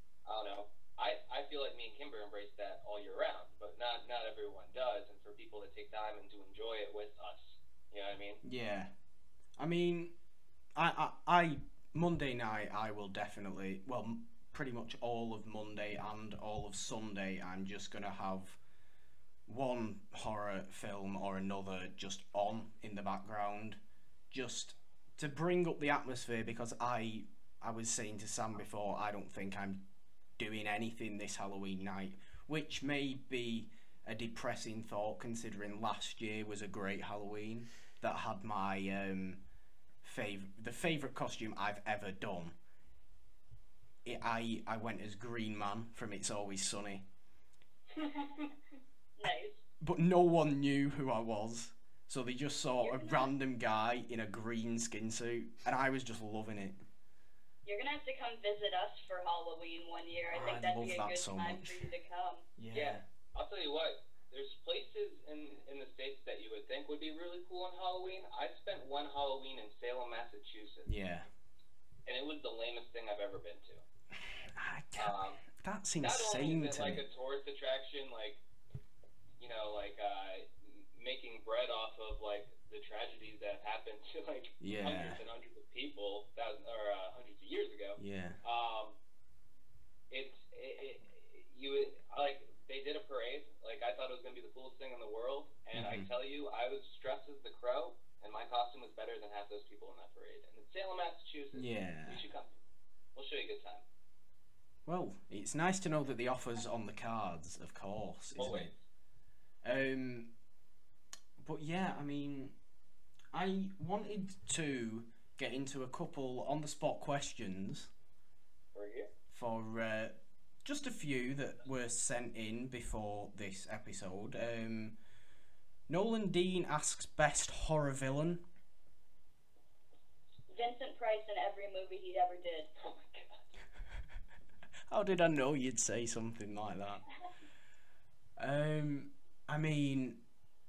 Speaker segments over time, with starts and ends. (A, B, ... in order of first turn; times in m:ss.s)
0:00.2-0:08.4 A
0:08.4-0:08.9 B
0:09.6-0:10.1 B
0:10.7-0:18.6 B
0:19.4-0:23.8 B
0:24.3-0:29.8 B
0:30.4-0:39.4 B
0:40.0-0:42.5 B
0:44.0-0:47.0 B
0:48.0-0:48.5 C
0:49.2-0:49.6 C
0:49.8-0:56.8 B
0:52.8-0:53.3 C
0:57.6-1:02.4 C
1:00.3-1:01.9 B
1:02.6-1:03.0 B
1:02.7-1:10.9 A
1:10.8-1:11.3 B
1:12.0-1:13.8 A
1:14.4-1:17.0 B
1:15.0-1:15.4 A
1:16.0-1:18.4 A
1:19.4-1:29.0 A
1:24.6-1:25.2 B
1:28.0-1:28.4 B
1:30.1-1:42.5 A
1:35.7-1:36.1 B
1:41.5-1:42.2 B
1:43.1-1:43.8 A
1:44.8-1:48.7 B
1:48.3-1:48.8 A
1:49.6-1:50.3 B
1:51.4-1:52.5 B
1:53.3-1:57.9 B
1:58.7-1:59.1 A
1:59.3-2:05.0 B
2:05.9-2:08.4 B
2:10.5-2:12.7 C
2:12.8-2:13.4 A
2:14.9-2:17.0 B
2:18.4-2:20.2 B